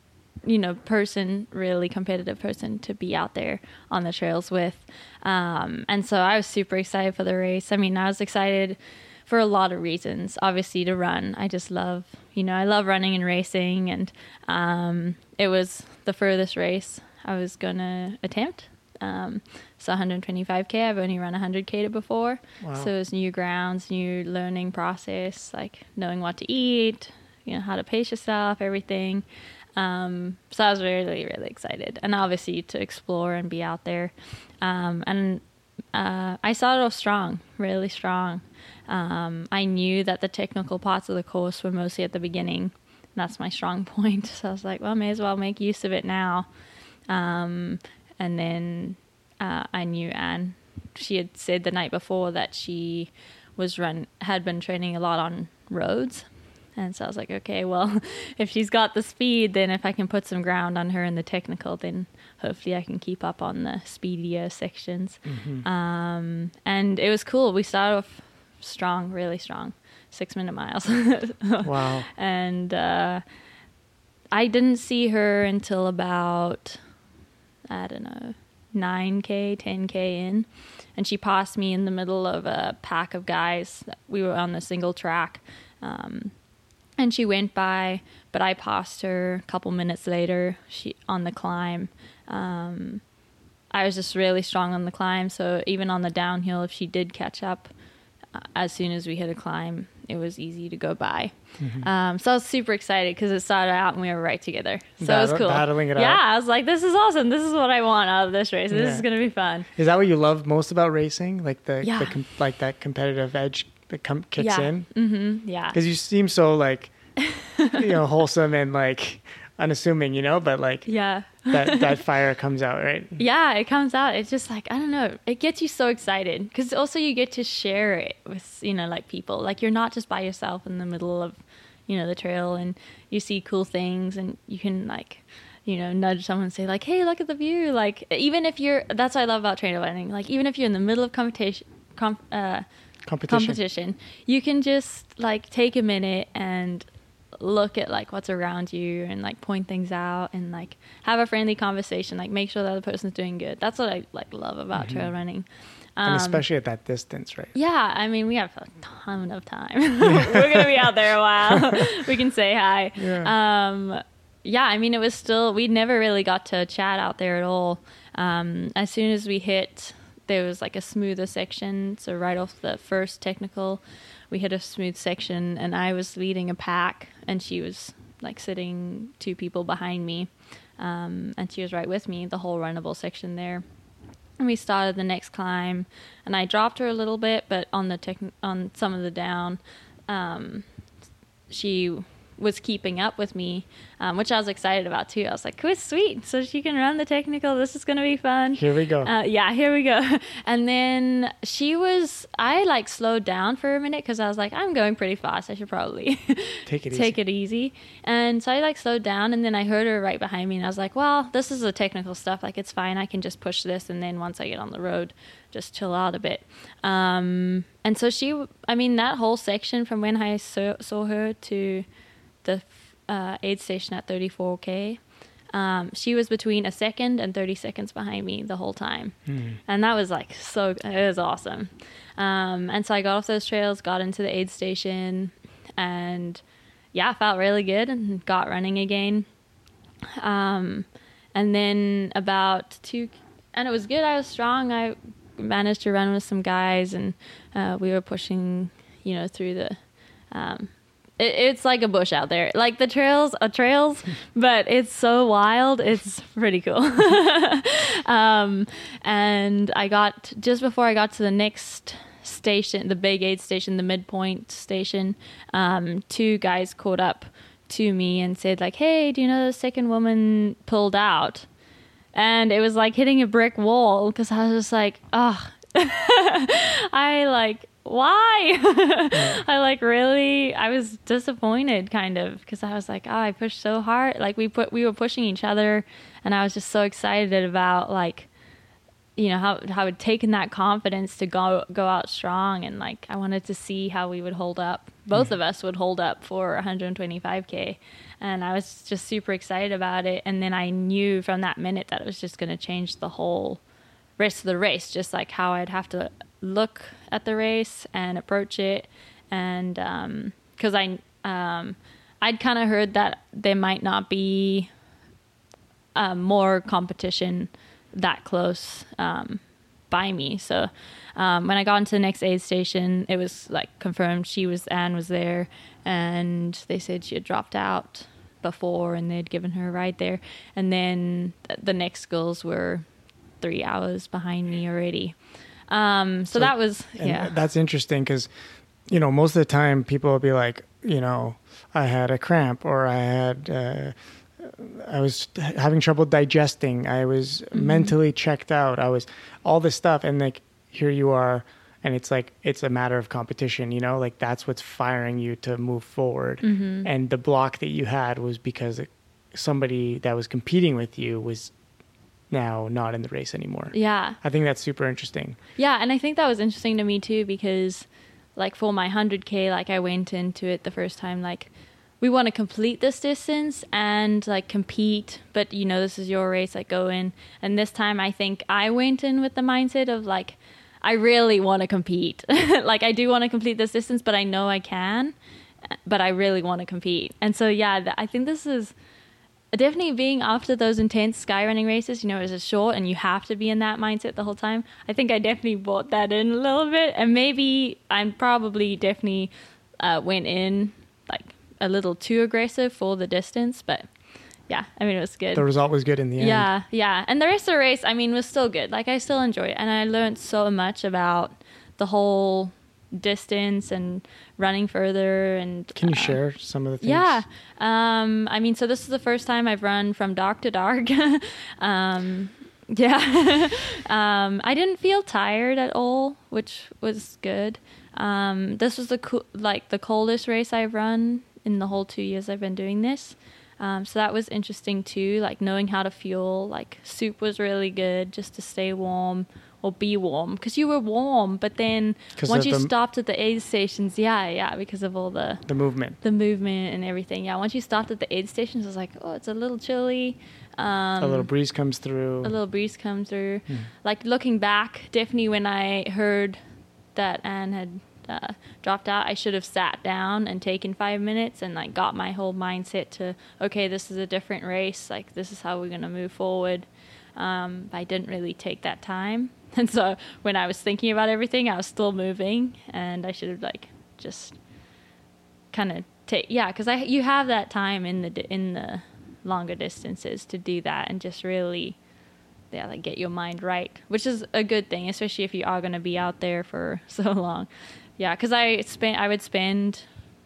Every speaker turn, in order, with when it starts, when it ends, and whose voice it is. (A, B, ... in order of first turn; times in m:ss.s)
0:00.4-0:29.2 A
0:22.6-0:22.9 B
0:29.8-0:35.4 A
0:35.9-0:46.5 A
0:47.1-1:13.2 A
1:05.2-1:05.6 B
1:11.6-1:12.1 B
1:14.3-1:16.8 A
1:17.7-1:26.3 A
1:27.0-1:33.0 A
1:33.7-1:37.7 A
1:38.3-1:49.7 A
1:41.6-1:41.9 B
1:45.0-1:46.2 B
1:48.7-1:49.0 B
1:49.7-1:54.9 B
1:51.8-1:52.2 A
1:54.4-1:55.8 A
1:55.7-1:57.0 B
1:57.2-1:57.8 A
1:57.7-2:00.9 B
2:00.8-2:02.0 A
2:01.5-2:03.2 B
2:03.2-2:22.6 A
2:23.0-2:23.6 B
2:23.3-2:36.4 A
2:34.8-2:35.1 B
2:36.0-2:37.5 B
2:37.5-3:03.6 A
2:40.0-2:40.6 B
2:43.0-2:43.3 B
3:04.4-3:10.6 A
3:11.5-3:41.8 A
3:18.5-3:19.1 B
3:26.7-3:27.1 B
3:42.4-3:56.4 A
3:49.3-3:49.6 B
3:56.9-3:59.3 A
4:00.2-4:31.5 A
4:32.1-4:48.3 A
4:39.1-4:39.4 B
4:49.2-5:03.6 A
5:04.2-5:14.7 A
5:15.9-5:32.8 A
5:33.4-5:37.3 A
5:36.3-5:38.3 B
5:38.9-6:01.5 B
5:47.5-5:48.0 A
5:56.4-5:56.9 A
6:02.3-6:05.4 B
6:03.7-6:04.2 A
6:05.6-6:25.2 A
6:25.7-6:28.7 A
6:29.5-6:43.9 A
6:44.5-6:45.5 A
6:45.3-6:46.5 B
6:46.2-6:56.2 A
6:55.7-6:57.2 B
6:56.8-7:25.4 A
7:22.2-7:22.7 B
7:25.5-7:26.0 B
7:26.0-7:31.3 A
7:31.0-7:32.3 B
7:32.2-7:36.4 A
7:36.9-7:54.4 A
7:55.5-8:01.8 A
8:02.5-8:09.9 A